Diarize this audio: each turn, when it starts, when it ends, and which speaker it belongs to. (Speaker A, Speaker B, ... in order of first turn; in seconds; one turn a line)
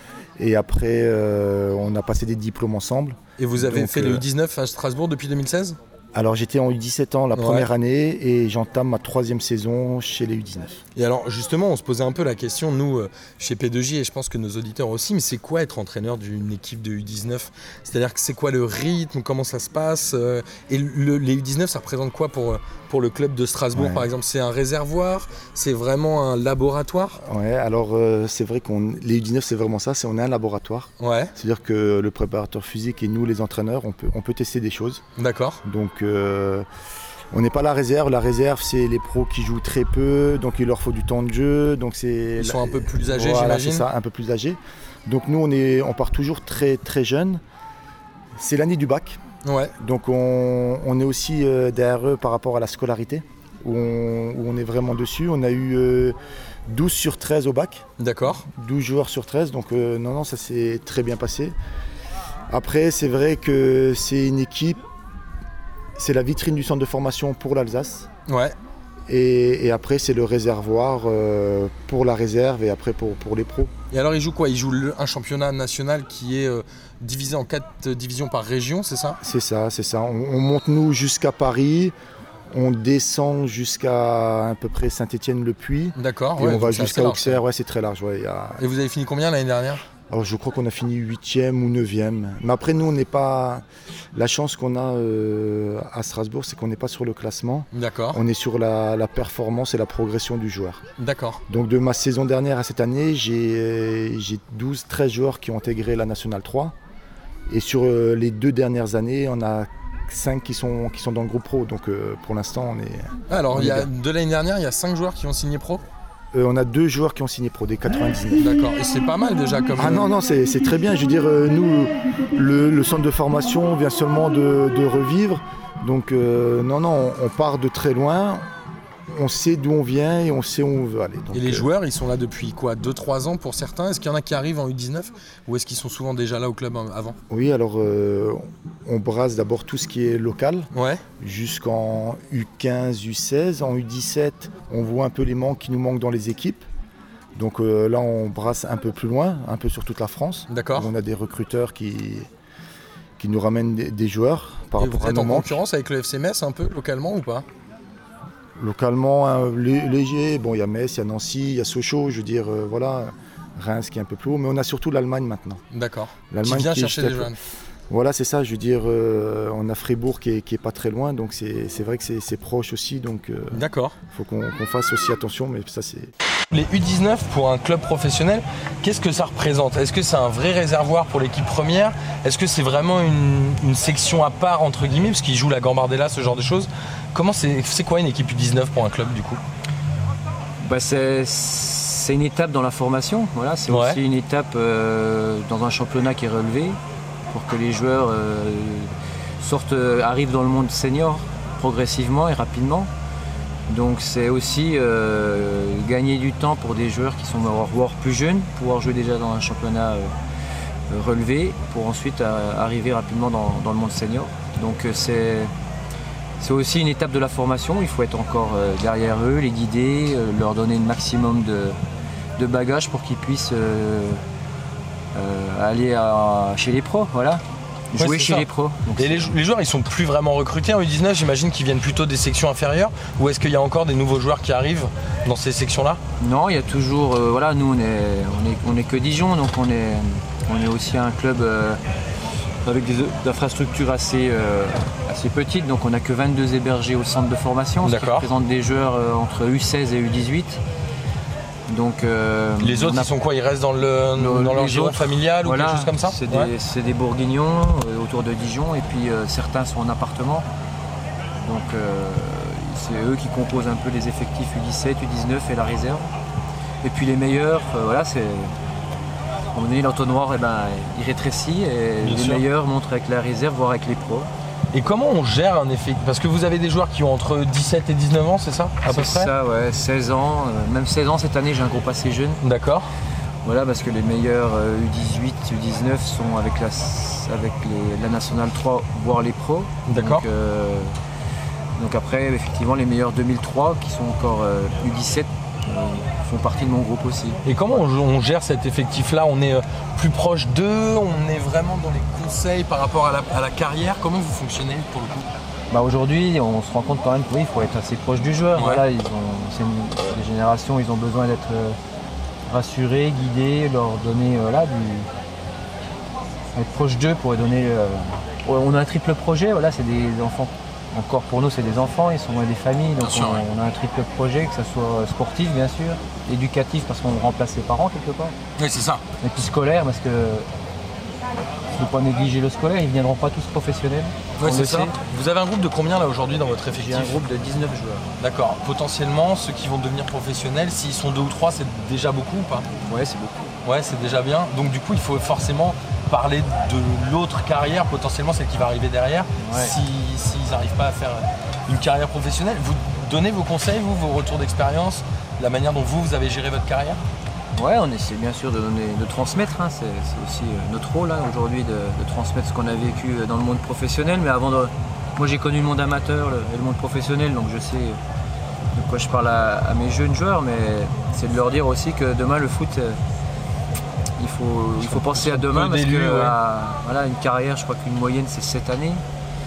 Speaker A: 0.4-4.2
Speaker B: 3.4-5.8
Speaker A: 6.1-10.8
Speaker B: 7.3-7.7
Speaker B: 10.9-27.2
Speaker A: 23.7-24.1
Speaker A: 27.2-35.0
Speaker B: 31.0-31.3
Speaker B: 35.2-35.6
Speaker A: 35.6-36.6
Speaker A: 37.3-47.4
Speaker B: 42.4-43.9
Speaker A: 48.4-49.2
Speaker B: 49.4-49.7
Speaker A: 49.8-56.1
Speaker A: 56.7-57.8
Speaker B: 58.0-58.5
Speaker A: 58.5-61.5
Speaker A: 62.5-64.8
Speaker A: 66.0-68.1
Speaker B: 68.3-68.5
Speaker A: 69.1-73.7
Speaker B: 73.9-79.2
Speaker A: 79.2-81.9
Speaker A: 82.5-88.6
Speaker B: 86.0-87.4
Speaker B: 88.6-89.8
Speaker A: 90.1-100.8
Speaker B: 97.7-98.2
Speaker B: 101.0-101.4
Speaker A: 101.5-106.7
Speaker A: 107.5-113.9
Speaker B: 113.3-115.8
Speaker A: 116.3-118.5
Speaker B: 118.4-120.1
Speaker A: 119.8-128.4
Speaker A: 129.1-131.7
Speaker B: 131.3-137.2
Speaker A: 137.3-140.7
Speaker B: 140.7-141.0
Speaker A: 141.2-146.6
Speaker A: 147.3-152.3
Speaker B: 150.5-150.9
Speaker A: 153.2-155.6
Speaker B: 154.8-157.4
Speaker A: 158.6-165.6
Speaker B: 165.7-167.4
Speaker A: 166.3-167.3
Speaker A: 167.9-176.1
Speaker B: 173.5-174.0
Speaker B: 176.5-189.4
Speaker C: 190.6-196.8
Speaker B: 193.7-194.0
Speaker C: 197.3-202.9
Speaker C: 203.7-210.1
Speaker C: 210.9-215.5
Speaker C: 216.4-221.8
Speaker C: 222.4-224.2
Speaker C: 225.1-229.3
Speaker B: 227.9-236.0
Speaker C: 236.2-241.8
Speaker C: 242.6-250.6
Speaker B: 247.8-248.3
Speaker C: 251.7-253.1
Speaker B: 252.6-256.5
Speaker C: 254.1-260.4
Speaker C: 261.4-266.1
Speaker C: 266.8-268.5
Speaker C: 269.5-274.3
Speaker B: 272.0-272.4
Speaker B: 274.7-279.3
Speaker C: 278.8-282.4
Speaker B: 282.4-282.8
Speaker C: 283.4-290.9
Speaker B: 289.9-290.2
Speaker C: 291.8-297.4
Speaker B: 297.4-305.3
Speaker C: 305.7-311.8
Speaker B: 308.5-308.8
Speaker C: 312.4-315.1
Speaker C: 316.5-328.4
Speaker B: 323.0-323.4
Speaker B: 328.6-329.0
Speaker C: 329.2-330.5
Speaker C: 331.7-334.9
Speaker B: 334.4-337.2
Speaker C: 336.7-338.1
Speaker B: 338.2-342.7
Speaker C: 342.8-343.5
Speaker B: 343.6-357.0
Speaker C: 349.4-349.8
Speaker C: 357.6-368.0
Speaker C: 368.7-373.0
Speaker C: 374.2-379.0
Speaker B: 374.8-376.4